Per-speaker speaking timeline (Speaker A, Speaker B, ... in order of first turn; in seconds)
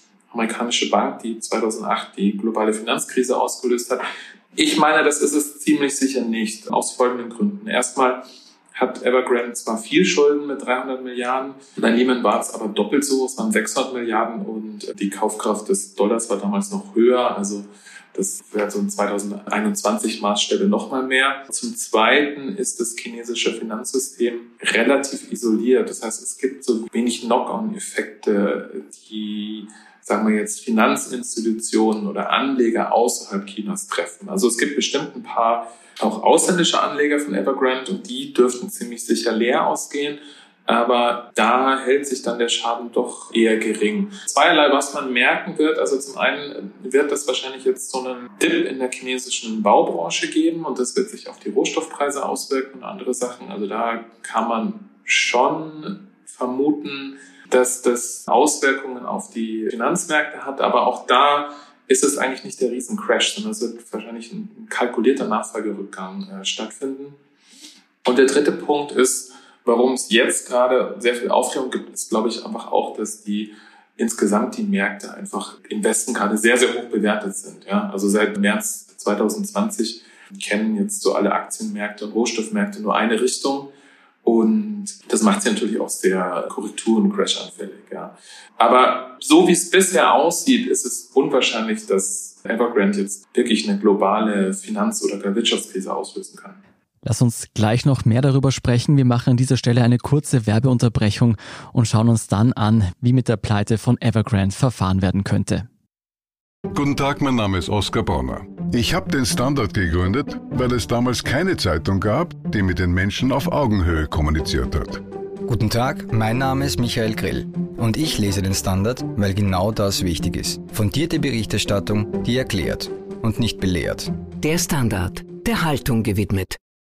Speaker A: 0.3-67.2, 68.0-83.7, 84.2-96.6
Speaker B: 97.0-105.7
Speaker C: 106.7-115.0
Speaker D: 115.5-124.1, 125.6-126.0
Speaker E: 124.4-126.6